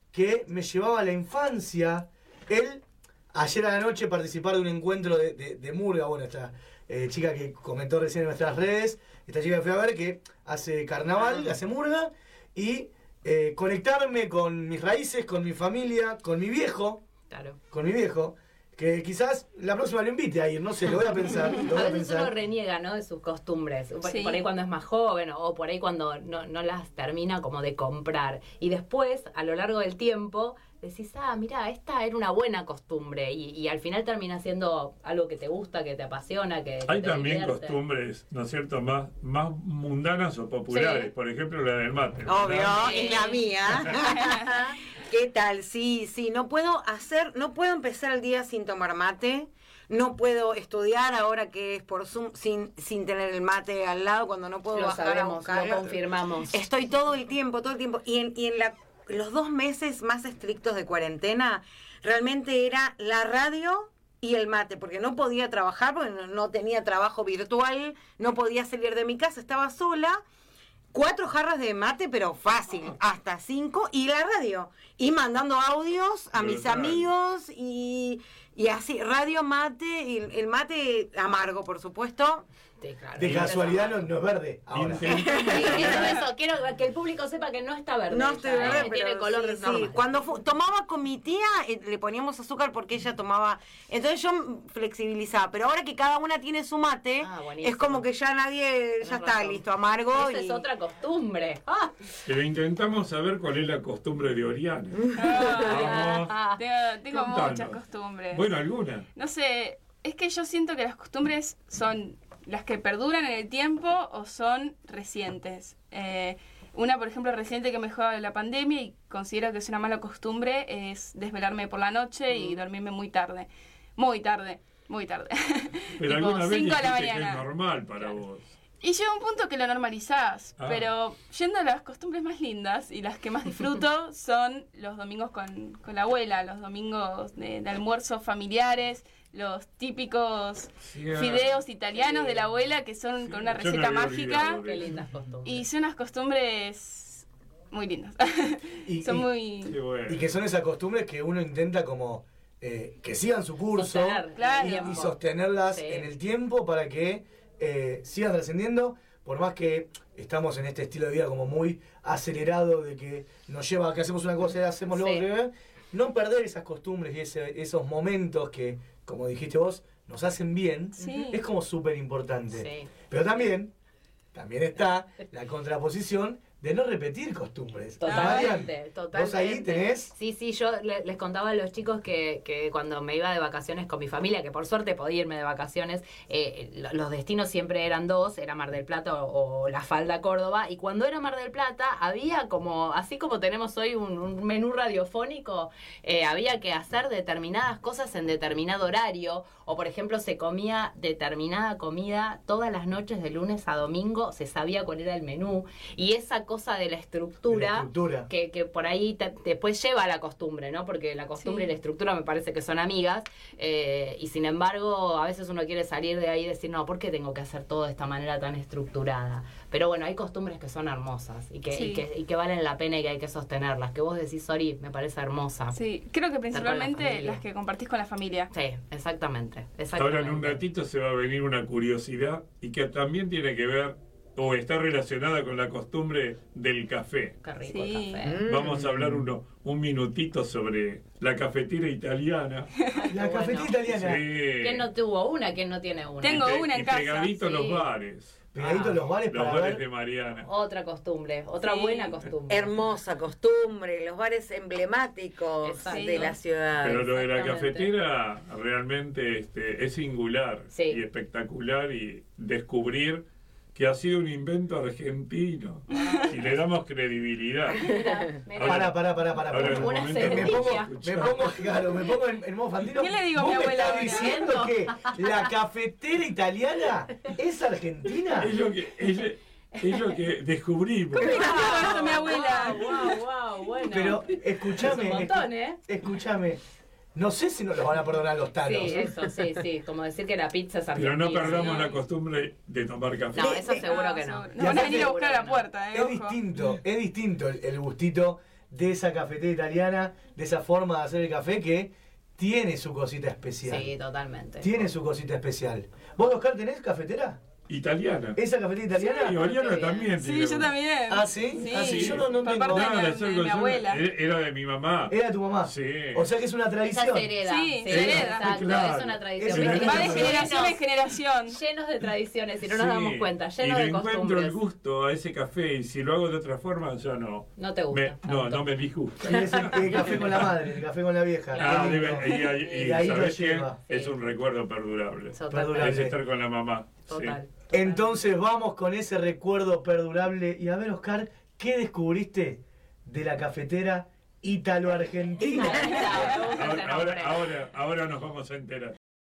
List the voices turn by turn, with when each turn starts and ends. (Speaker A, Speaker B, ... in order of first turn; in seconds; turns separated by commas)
Speaker A: 0.1-17.0, Speaker B: 17.3-17.6, Speaker A: 17.7-22.3, Speaker B: 21.6-37.8, Speaker C: 24.0-24.4, Speaker D: 36.9-43.1, Speaker B: 40.7-41.1, Speaker E: 42.2-56.0, Speaker B: 42.8-43.5, Speaker B: 54.7-56.5, Speaker E: 56.5-70.2, Speaker E: 70.9-82.5, Speaker D: 76.3-77.1, Speaker B: 82.8-84.1, Speaker A: 83.2-85.1, Speaker D: 84.7-86.1, Speaker E: 85.3-85.8, Speaker B: 85.3-90.2, Speaker E: 88.1-100.6, Speaker B: 97.2-98.1, Speaker B: 99.0-102.1, Speaker D: 102.3-106.4, Speaker C: 105.2-108.5, Speaker B: 105.6-106.6, Speaker D: 107.2-107.8, Speaker D: 108.3-109.0, Speaker C: 109.2-127.4, Speaker B: 122.3-122.6, Speaker D: 126.0-128.4, Speaker C: 128.8-144.6, Speaker D: 130.6-130.9, Speaker D: 140.8-141.6, Speaker B: 141.9-142.4, Speaker D: 143.2-144.9, Speaker B: 144.6-145.7, Speaker C: 145.4-149.8, Speaker A: 148.9-149.3, Speaker D: 149.7-150.2, Speaker A: 150.1-173.7, Speaker B: 153.7-156.1, Speaker C: 154.4-155.0, Speaker B: 164.9-165.3, Speaker C: 171.0-171.4, Speaker B: 172.5-172.9, Speaker A: 174.3-180.1, Speaker B: 178.0-225.8, Speaker C: 178.1-178.6, Speaker A: 207.5-208.3, Speaker C: 211.4-211.7, Speaker C: 221.7-222.1, Speaker C: 225.7-228.5, Speaker B: 226.5-227.4, Speaker B: 228.5-230.6, Speaker D: 229.9-237.4, Speaker B: 237.4-238.4, Speaker C: 237.7-238.3, Speaker E: 238.2-239.0, Speaker D: 238.4-242.7, Speaker B: 243.0-243.9, Speaker A: 243.1-244.2, Speaker D: 243.9-244.9, Speaker B: 244.6-246.6, Speaker C: 246.2-247.4, Speaker D: 246.2-248.4, Speaker B: 247.4-247.9, Speaker A: 248.5-249.8, Speaker B: 248.6-249.0, Speaker D: 249.3-250.5, Speaker B: 250.4-252.7, Speaker C: 251.6-252.1, Speaker E: 252.5-257.0, Speaker B: 255.6-257.9, Speaker C: 255.9-256.3, Speaker D: 256.8-267.9, Speaker B: 260.7-261.0, Speaker B: 265.9-266.6, Speaker C: 265.9-266.2, Speaker B: 267.7-271.4, Speaker D: 268.6-269.0, Speaker A: 268.6-278.6, Speaker D: 269.5-271.4, Speaker C: 272.9-274.4, Speaker B: 273.6-275.4, Speaker D: 278.4-281.4, Speaker B: 281.2-285.8, Speaker C: 281.2-283.0, Speaker A: 283.9-286.6, Speaker A: 287.1-289.1, Speaker B: 288.6-292.0, Speaker D: 290.9-293.6, Speaker B: 293.3-295.7, Speaker C: 293.7-296.4, Speaker A: 294.6-295.1, Speaker A: 295.9-303.9, Speaker B: 303.7-304.9, Speaker A: 304.6-307.4, Speaker D: 307.7-308.4, Speaker A: 308.4-309.4, Speaker D: 309.1-310.8, Speaker B: 309.5-310.1, Speaker C: 310.2-314.0, Speaker A: 311.1-313.0, Speaker D: 311.7-315.1, Speaker A: 315.1-317.3, Speaker D: 315.6-316.3, Speaker B: 316.9-320.8, Speaker C: 317.4-318.5, Speaker D: 317.9-320.5, Speaker A: 319.4-320.5, Speaker C: 319.6-321.6, Speaker B: 321.5-324.6, Speaker D: 322.6-330.5, Speaker B: 327.6-328.7, Speaker A: 329.2-333.8, Speaker B: 329.3-330.2, Speaker B: 331.5-332.6, Speaker D: 331.6-337.4, Speaker B: 333.9-334.3, Speaker B: 335.3-336.1, Speaker A: 335.5-336.2, Speaker B: 337.1-338.2, Speaker A: 337.7-346.0, Speaker B: 344.9-347.5, Speaker D: 346.6-348.9